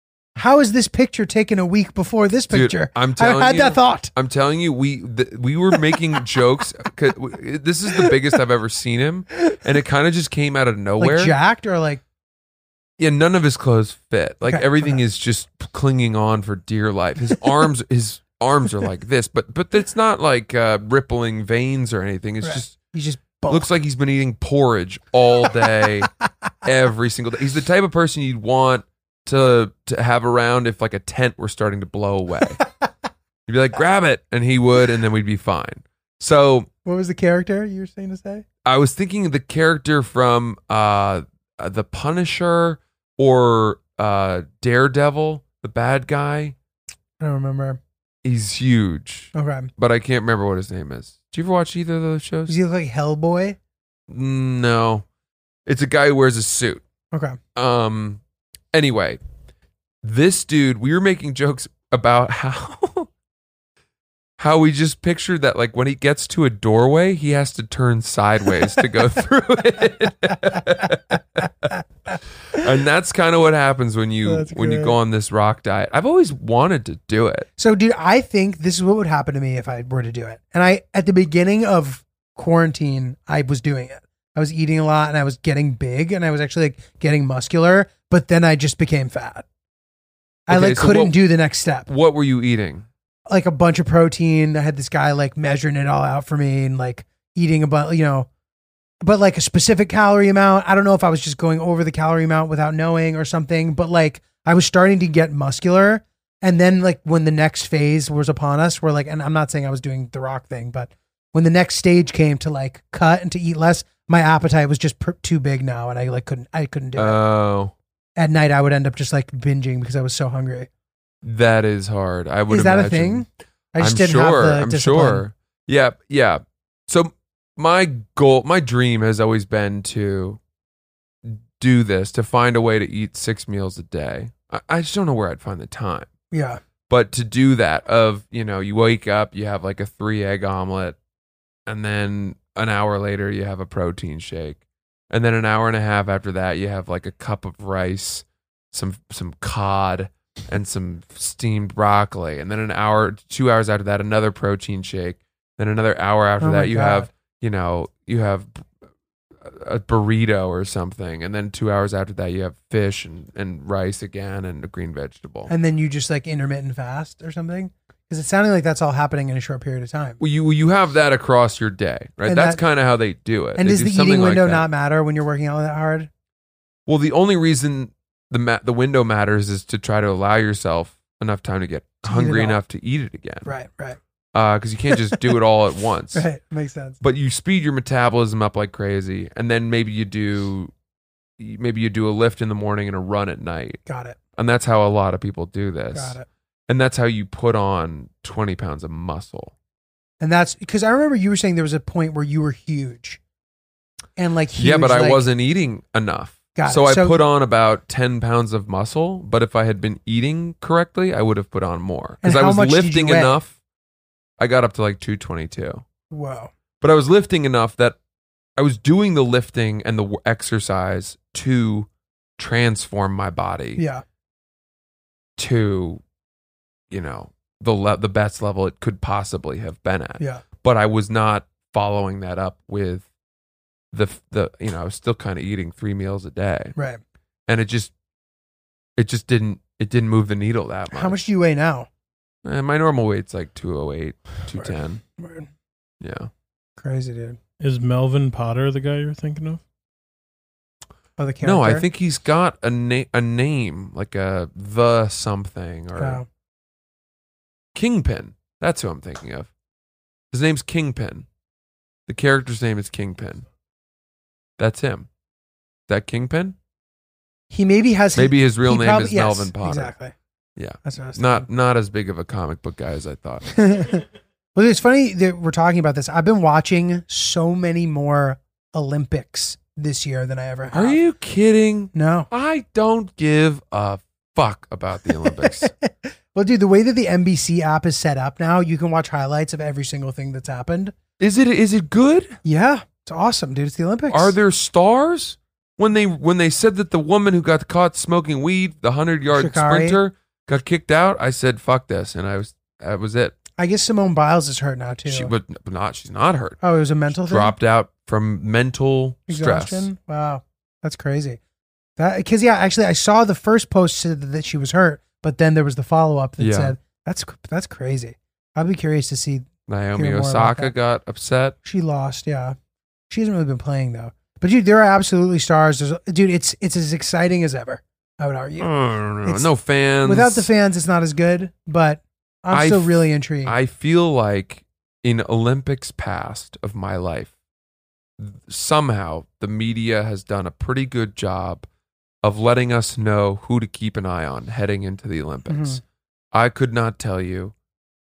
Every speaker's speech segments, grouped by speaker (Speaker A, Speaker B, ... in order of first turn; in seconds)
Speaker A: 0.4-4.1, 11.0-12.0, 14.5-15.0, 22.4-23.7, 36.9-38.5, 47.2-47.8, 49.3-49.7, 52.5-53.6, 57.1-57.4, 74.2-75.0, 77.6-89.5, 90.5-91.9, 93.3-98.3, 99.0-117.2, 118.2-120.7, 122.5-125.2, 136.3-136.6, 156.4-157.1, 165.5-170.2, 172.3-172.6, 173.6-176.1, 182.0-182.6, 183.4-184.0, 184.9-185.3, 186.1-187.0, 193.9-194.2, 195.9-196.3, 200.2-203.2, 204.2-205.2, 206.6-207.2, 212.2-213.4, 216.1-216.5, 223.8-224.0, 240.9-241.9, 244.6-245.5, 246.8-247.4, 251.2-251.8, 256.0-256.3, 267.5-270.1, 270.8-271.5, 273.5-281.0, 281.9-282.3, 285.2-290.9, 292.4-294.3, 299.3-300.0, 303.6-305.3, 306.6-307.5, 309.3-311.4, 312.0-320.7, 321.6-322.6, 323.1-328.7, 330.0-333.6, 345.5-345.8
Speaker B: 2.5-11.3, 13.0-22.8, 23.5-26.1, 26.6-32.6, 33.5-36.7, 38.6-46.5, 48.2-52.6, 54.1-55.0, 55.7-56.8, 57.5-58.2, 58.7-59.2, 60.0-63.1, 64.4-71.5, 72.5-77.5, 90.5-91.2, 91.9-92.9, 117.0-117.8, 121.2-123.3, 123.8-130.4, 131.2-136.1, 136.9-141.0, 141.7-158.6, 159.4-165.5, 170.2-174.7, 176.9-183.5, 184.3-186.3, 187.0-190.7, 191.4-193.8, 194.4-196.2, 196.7-199.5, 204.6-213.6, 214.4-215.8, 216.8-218.0, 218.6-223.8, 225.4-226.0, 226.9-233.1, 233.9-236.7, 237.5-237.9, 239.0-241.2, 242.4-245.0, 246.0-246.3, 251.4-256.2, 257.7-259.5, 260.3-261.3, 262.1-263.5, 264.6-265.1, 265.9-266.6, 268.1-269.9, 270.6-273.5, 280.7-285.7, 291.2-292.4, 294.1-303.4, 305.1-309.9, 316.4-316.8, 319.7-321.6, 328.6-330.5, 332.5-337.3, 338.2-341.7, 342.2-345.8, 346.3-347.5
Speaker C: 247.6-249.6